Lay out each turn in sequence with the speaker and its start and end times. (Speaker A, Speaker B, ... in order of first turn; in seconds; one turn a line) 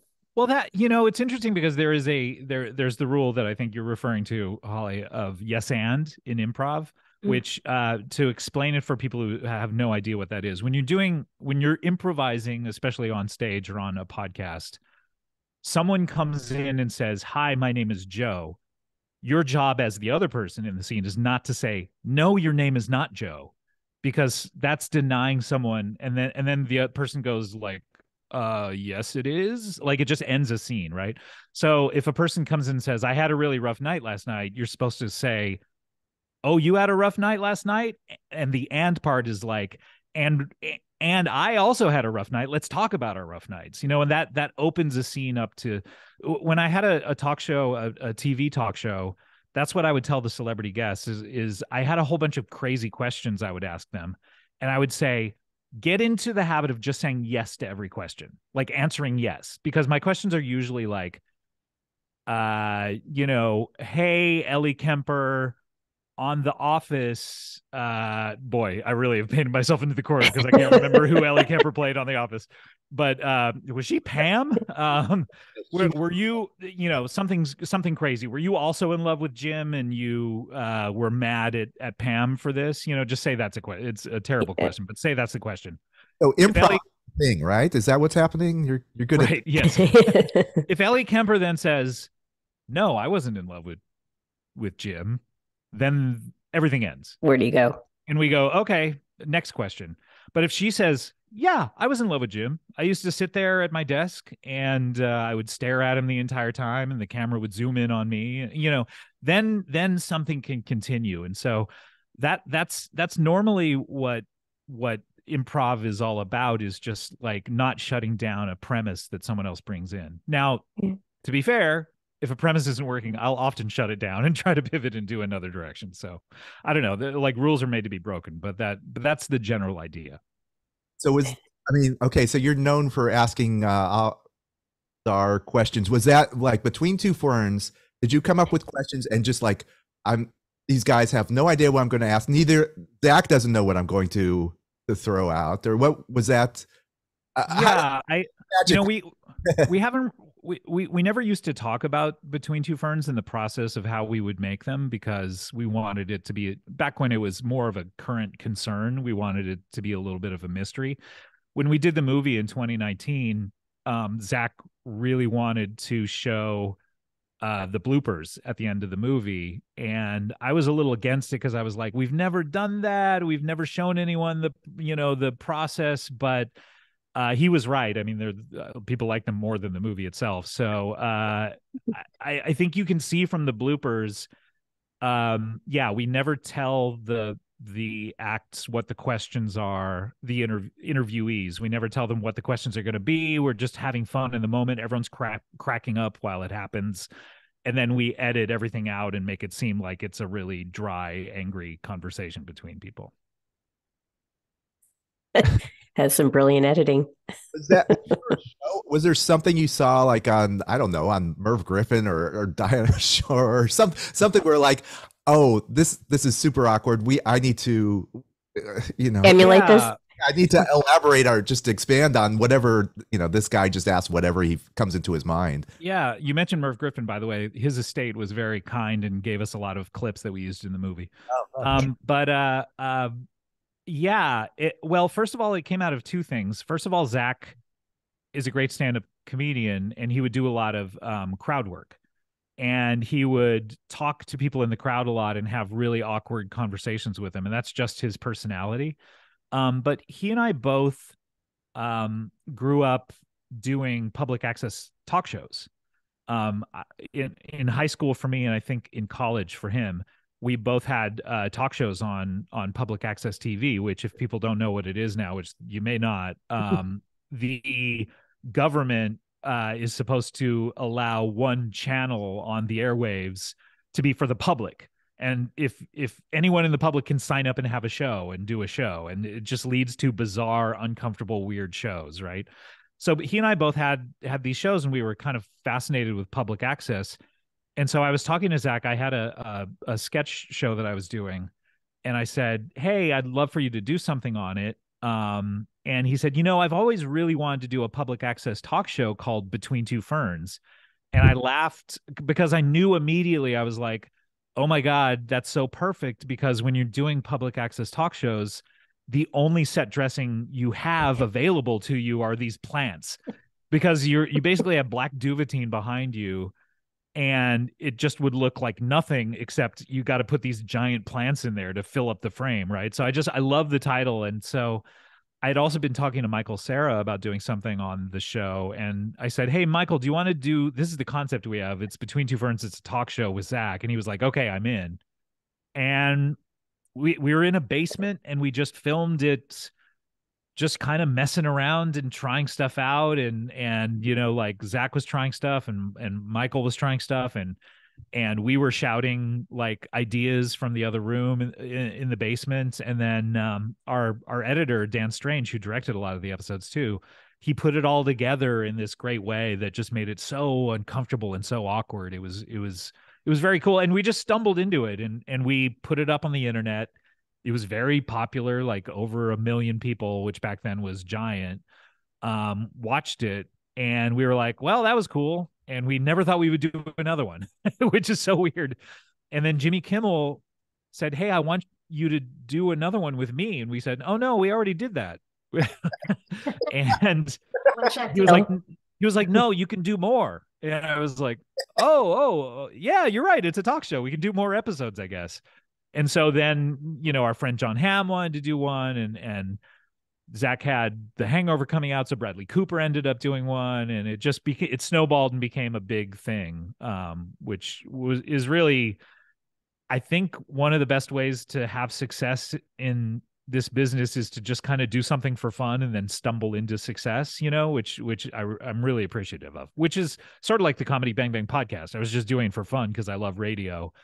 Speaker A: 0.3-14.8
Speaker A: 15.6-18.6
Speaker A: 19.2-35.6
Speaker A: 36.4-61.2
Speaker A: 62.3-65.6
Speaker A: 66.2-85.8
Speaker B: 86.2-89.3
Speaker A: 86.5-86.8
Speaker A: 89.1-92.1
Speaker C: 89.6-90.6
Speaker A: 92.7-93.8
Speaker A: 94.5-95.2
Speaker A: 95.7-97.2
Speaker C: 97.2-97.8
Speaker A: 98.1-120.7
Speaker A: 121.2-130.2
Speaker B: 131.0-134.2
Speaker B: 135.0-146.7
Speaker B: 147.3-147.8
Speaker A: 147.5-149.1
Speaker B: 148.5-148.8
Speaker A: 149.6-161.0
Speaker A: 161.5-166.8
Speaker A: 167.4-176.5
Speaker A: 177.1-184.3
Speaker A: 185.0-197.1
Speaker A: 197.6-203.1
Speaker C: 205.3-207.1
Speaker B: 207.5-219.5
Speaker C: 219.2-219.9
Speaker A: 219.4-220.0
Speaker B: 220.2-225.7
Speaker A: 225.8-233.1
Speaker B: 231.3-231.8
Speaker A: 233.9-237.6
Speaker A: 238.3-241.9
Speaker A: 242.6-249.0
Speaker A: 249.5-251.1
Speaker A: 251.8-255.7
Speaker A: 256.3-287.2
Speaker A: 287.8-291.5
Speaker A: 292.0-300.6
Speaker A: 301.1-313.2
Speaker A: 313.7-316.5
Speaker A: 317.1-324.8
Speaker A: 325.4-335.0
Speaker A: 335.8-336.4
Speaker A: 336.9-339.7
Speaker A: 340.6-347.6
Speaker A: 348.1-366.9
Speaker A: 367.4-371.6
Speaker A: 372.2-378.8
Speaker A: 379.3-380.4
Speaker A: 380.9-387.4
Speaker C: 387.7-388.4
Speaker A: 388.1-395.4
Speaker A: 395.9-399.6
Speaker A: 400.3-409.0
Speaker A: 409.9-423.9